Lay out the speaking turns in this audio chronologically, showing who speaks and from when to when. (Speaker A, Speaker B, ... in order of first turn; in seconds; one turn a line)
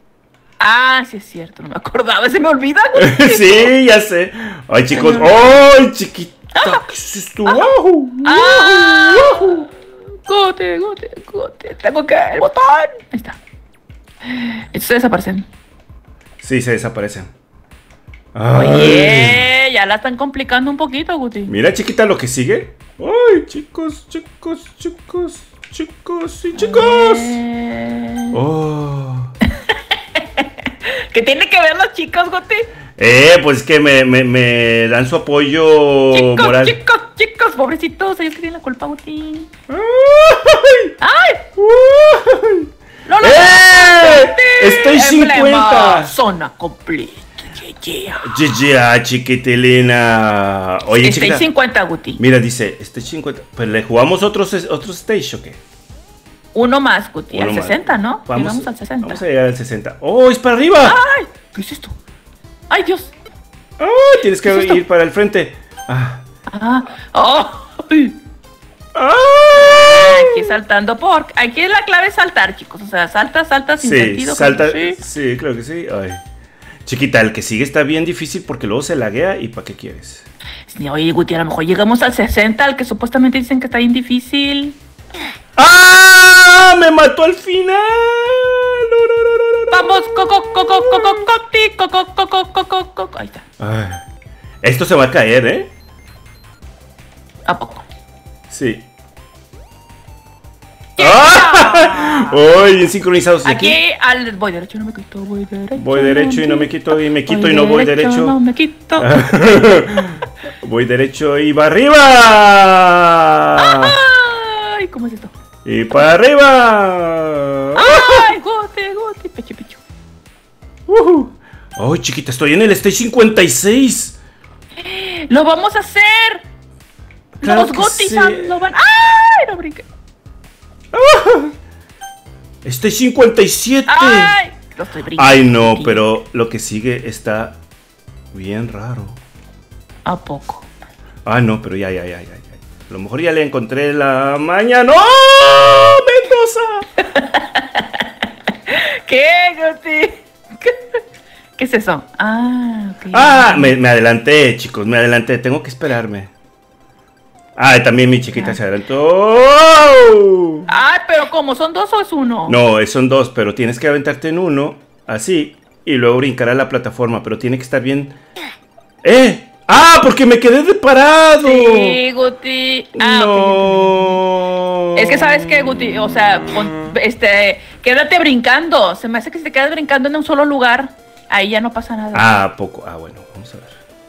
Speaker A: 0.6-3.7
Speaker B: 2.9-9.6
Speaker A: 4.9-5.6
Speaker A: 6.5-6.8
Speaker A: 7.5-9.7
Speaker A: 10.2-13.4
Speaker A: 14.2-15.4
Speaker B: 16.4-17.3
Speaker B: 18.3-19.5
Speaker A: 18.5-21.5
Speaker B: 21.5-27.4
Speaker A: 26.5-28.4
Speaker B: 28.3-29.3
Speaker A: 29.7-32.7
Speaker B: 33.0-36.8
Speaker A: 36.1-39.5
Speaker B: 39.7-40.9
Speaker A: 41.0-41.5
Speaker B: 41.6-46.1
Speaker A: 43.0-48.4
Speaker B: 48.2-51.5
Speaker A: 50.9-52.2
Speaker B: 52.2-55.6
Speaker A: 56.5-59.2
Speaker B: 57.3-61.0
Speaker A: 60.8-61.9
Speaker A: 62.7-63.1
Speaker B: 63.8-66.2
Speaker A: 64.4-64.8
Speaker A: 66.5-68.1
Speaker B: 68.9-70.5
Speaker A: 69.5-75.0
Speaker B: 73.8-76.2
Speaker B: 76.8-80.3
Speaker A: 80.7-84.8
Speaker B: 85.6-91.1
Speaker A: 89.7-93.4
Speaker B: 93.6-94.0
Speaker B: 94.6-95.7
Speaker A: 97.5-97.8
Speaker B: 98.5-98.8
Speaker A: 101.0-102.4
Speaker B: 101.0-103.8
Speaker A: 103.4-109.2
Speaker B: 105.8-108.3
Speaker B: 109.0-114.0
Speaker A: 113.6-115.3
Speaker B: 115.6-118.3
Speaker A: 117.7-119.8
Speaker B: 120.9-124.2
Speaker A: 124.8-126.4
Speaker B: 127.4-128.7
Speaker A: 127.4-129.9
Speaker B: 130.9-131.5
Speaker B: 132.6-134.4
Speaker A: 133.9-136.1
Speaker B: 135.1-137.6
Speaker B: 138.3-139.2
Speaker A: 140.0-140.7
Speaker B: 141.2-146.9
Speaker A: 147.1-148.0
Speaker A: 148.7-151.0
Speaker A: 151.6-153.7
Speaker B: 153.1-156.3
Speaker B: 157.6-160.7
Speaker A: 160.7-162.6
Speaker B: 162.5-168.1
Speaker B: 169.0-172.0
Speaker A: 171.4-174.2
Speaker B: 172.9-175.4
Speaker A: 174.9-182.4
Speaker B: 182.1-183.8